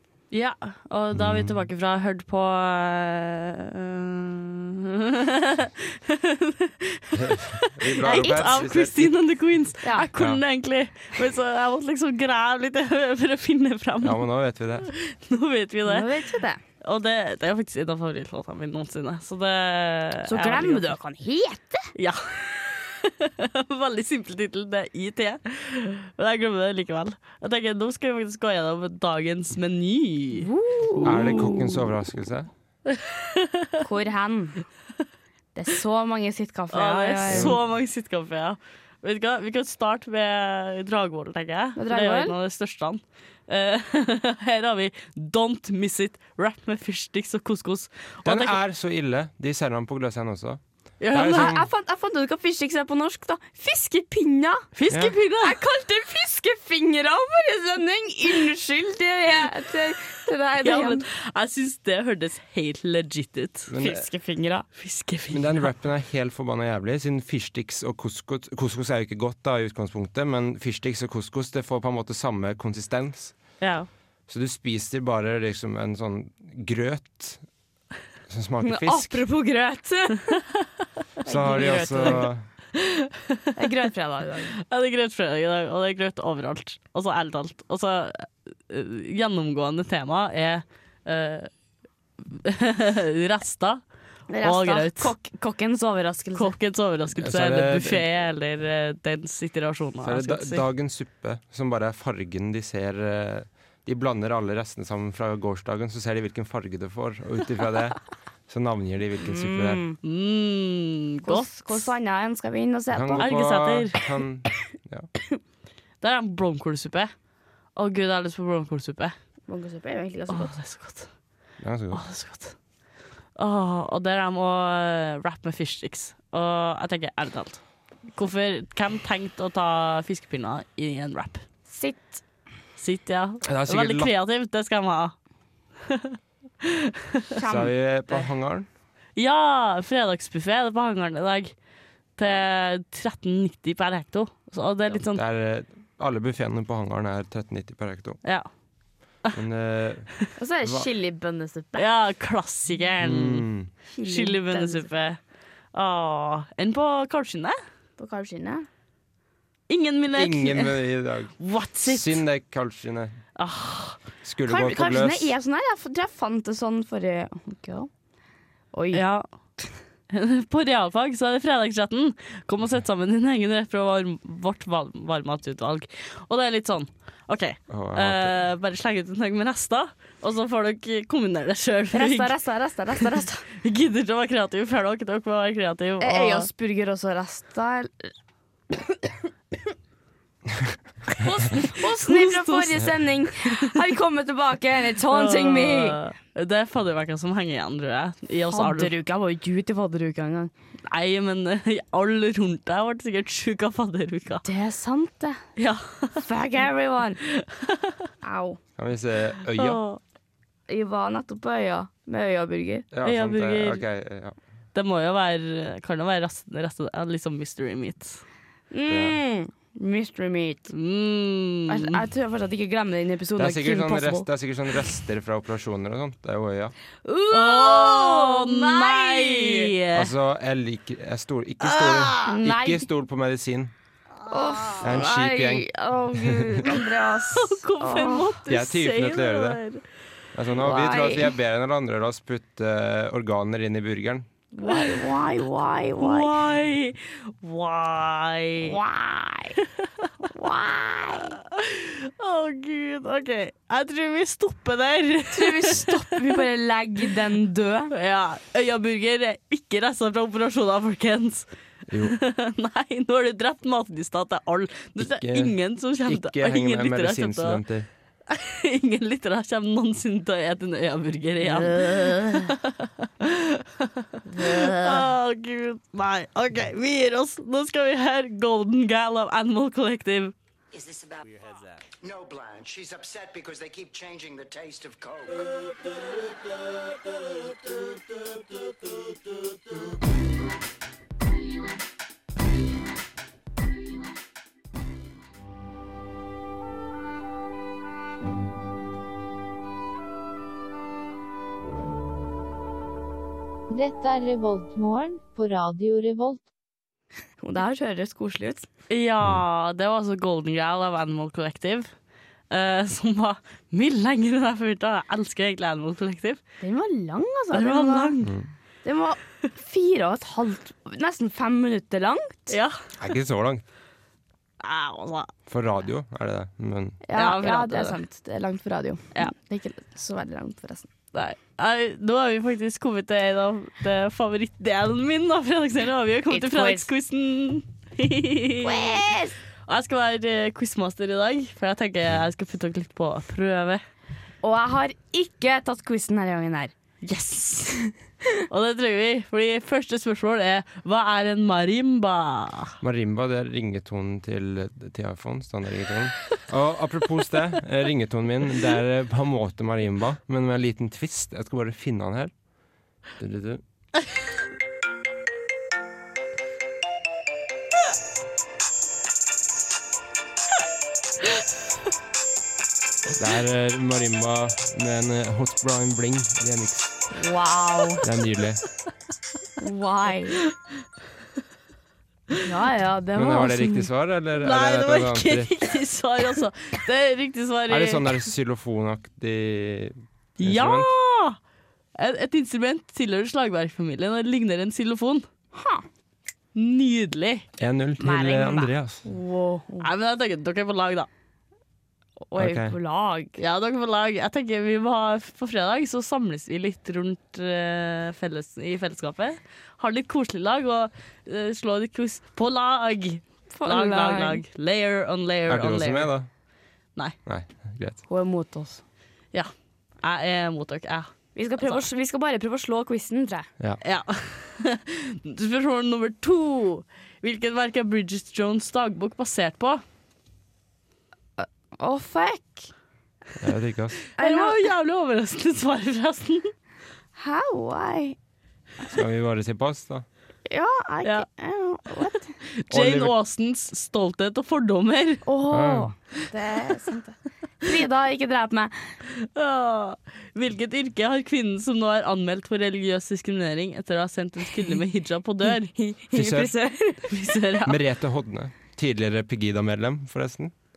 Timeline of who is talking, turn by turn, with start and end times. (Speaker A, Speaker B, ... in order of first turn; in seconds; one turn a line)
Speaker A: 0.3-14.2
Speaker B: 1.2-1.6
Speaker B: 7.2-9.1
Speaker C: 9.8-10.1
Speaker B: 14.0-14.9
Speaker A: 14.8-16.1
Speaker C: 15.8-16.6
Speaker A: 16.8-20.9
Speaker C: 20.3-21.9
Speaker A: 21.9-31.7
Speaker C: 30.4-31.6
Speaker B: 31.0-32.5
Speaker A: 32.9-33.7
Speaker C: 33.8-34.6
Speaker C: 35.5-37.6
Speaker A: 36.7-48.6
Speaker B: 37.3-37.6
Speaker C: 41.8-42.4
Speaker B: 48.2-50.6
Speaker A: 51.0-51.6
Speaker B: 51.1-51.7
Speaker C: 51.3-54.7
Speaker A: 54.8-55.6
Speaker B: 54.9-55.1
Speaker C: 55.4-61.0
Speaker A: 60.6-63.8
Speaker B: 63.7-64.1
Speaker C: 63.8-64.7
Speaker A: 64.8-65.7
Speaker B: 65.3-73.4
Speaker A: 73.6-73.9
Speaker B: 74.3-77.4
Speaker B: 78.3-79.3
Speaker C: 78.6-80.3
Speaker C: 81.3-82.3
Speaker B: 81.3-82.5
Speaker A: 81.5-82.2
Speaker A: 82.8-83.4
Speaker C: 83.6-84.5
Speaker A: 84.6-91.5
Speaker A: 92.2-93.8
Speaker C: 94.3-96.6
Speaker A: 94.4-95.1
Speaker A: 96.3-100.7
Speaker B: 97.2-98.0
Speaker B: 100.0-109.8
Speaker C: 109.2-110.0
Speaker A: 110.0-111.9
Speaker C: 111.2-113.3
Speaker B: 112.9-115.1
Speaker A: 113.2-114.0
Speaker A: 116.0-117.1
Speaker A: 117.8-119.2
Speaker C: 119.5-120.5
Speaker A: 120.3-121.1
Speaker B: 121.6-122.0
Speaker A: 121.9-122.6
Speaker A: 123.4-131.4
Speaker C: 131.7-132.2
Speaker A: 132.8-135.2
Speaker B: 133.4-134.1
Speaker A: 135.9-136.7
Speaker C: 137.4-138.3
Speaker B: 137.4-138.7
Speaker A: 139.2-141.6
Speaker A: 142.2-145.2
Speaker B: 145.1-148.2
Speaker A: 148.2-148.5
Speaker B: 149.3-150.1
Speaker C: 150.4-151.8
Speaker B: 150.6-150.9
Speaker A: 151.8-153.5
Speaker B: 153.0-153.7
Speaker C: 153.9-154.9
Speaker A: 154.0-155.2
Speaker A: 155.7-157.6
Speaker C: 158.0-158.7
Speaker A: 159.7-160.8
Speaker B: 160.1-163.2
Speaker A: 161.4-162.2
Speaker A: 163.4-164.0
Speaker B: 164.2-165.3
Speaker C: 164.5-167.9
Speaker C: 168.7-169.0
Speaker A: 168.9-169.3
Speaker A: 170.1-182.3
Speaker B: 177.7-178.4
Speaker C: 181.9-183.5
Speaker A: 183.6-186.5
Speaker C: 186.0-188.1
Speaker C: 191.2-196.0
Speaker A: 191.8-192.9
Speaker A: 195.1-198.9
Speaker C: 198.5-200.5
Speaker A: 200.9-204.4
Speaker C: 204.4-205.4
Speaker A: 205.6-206.2
Speaker C: 206.2-207.2
Speaker A: 207.3-208.0
Speaker C: 208.2-208.6
Speaker B: 208.8-209.8
Speaker A: 209.6-210.0
Speaker C: 210.7-212.9
Speaker B: 212.9-214.4
Speaker A: 213.0-213.8
Speaker A: 214.7-218.2
Speaker C: 218.7-220.7
Speaker B: 218.9-219.2
Speaker A: 220.7-222.0
Speaker C: 221.7-224.3
Speaker B: 223.4-226.8
Speaker C: 227.1-229.7
Speaker A: 227.3-230.1
Speaker B: 229.9-233.7
Speaker A: 231.6-232.4
Speaker C: 232.3-232.9
Speaker C: 234.3-238.4
Speaker A: 234.3-234.8
Speaker B: 234.8-236.6
Speaker A: 236.7-239.8
Speaker B: 238.5-239.6
Speaker B: 240.3-244.3
Speaker C: 240.6-241.3
Speaker C: 244.5-246.3
Speaker A: 244.7-245.0
Speaker A: 246.0-248.8
Speaker C: 248.6-249.6
Speaker A: 249.6-250.1
Speaker C: 250.2-251.4
Speaker A: 251.4-256.3
Speaker C: 255.3-257.9
Speaker A: 257.9-261.5
Speaker B: 261.9-262.2
Speaker A: 262.0-267.6
Speaker B: 265.0-267.9
Speaker A: 268.3-280.4
Speaker C: 271.4-272.5
Speaker C: 274.3-275.1
Speaker D: 280.7-285.5
Speaker E: 303.7-306.4
Speaker C: 307.4-308.7
Speaker A: 308.9-311.9
Speaker A: 312.5-316.4
Speaker C: 316.6-318.1
Speaker A: 317.5-318.3
Speaker B: 318.2-318.5
Speaker C: 318.8-322.6
Speaker A: 322.5-322.8
Speaker B: 323.0-323.6
Speaker A: 324.6-325.3
Speaker B: 325.5-327.0
Speaker C: 327.0-330.9
Speaker A: 327.1-328.0
Speaker A: 331.1-339.1
Speaker C: 336.3-336.9
Speaker C: 338.6-339.4
Speaker A: 339.7-343.8
Speaker C: 344.4-346.7
Speaker A: 347.0-347.8
Speaker A: 348.5-352.8
Speaker B: 352.8-362.3
Speaker B: 363.2-363.6
Speaker B: 373.2-376.9
Speaker C: 377.1-378.0
Speaker B: 378.0-378.6
Speaker C: 379.6-380.4
Speaker C: 382.4-383.9
Speaker B: 383.1-385.5
Speaker A: 384.4-388.0
Speaker B: 387.7-390.9
Speaker A: 390.4-391.4
Speaker A: 392.0-395.3
Speaker C: 395.6-395.8
Speaker A: 396.6-397.5
Speaker B: 397.6-399.1
Speaker C: 398.0-399.9
Speaker A: 399.8-401.1
Speaker C: 402.3-403.4
Speaker B: 402.4-402.8
Speaker A: 403.4-416.1
Speaker C: 413.5-414.4
Speaker B: 415.5-416.3
Speaker B: 417.3-418.0
Speaker C: 418.1-418.8
Speaker A: 420.0-421.9
Speaker C: 421.4-423.5
Speaker A: 423.8-429.8
Speaker C: 431.4-432.7
Speaker B: 433.4-434.0
Speaker C: 434.2-434.6
Speaker A: 434.2-436.5
Speaker C: 437.2-438.2
Speaker B: 438.9-440.1
Speaker C: 440.5-442.3
Speaker A: 442.4-445.2
Speaker B: 442.7-443.1
Speaker C: 445.2-448.8
Speaker B: 445.5-445.9
Speaker A: 449.2-455.7
Speaker C: 455.6-457.1
Speaker B: 456.1-456.5
Speaker A: 457.1-457.8
Speaker B: 457.7-460.5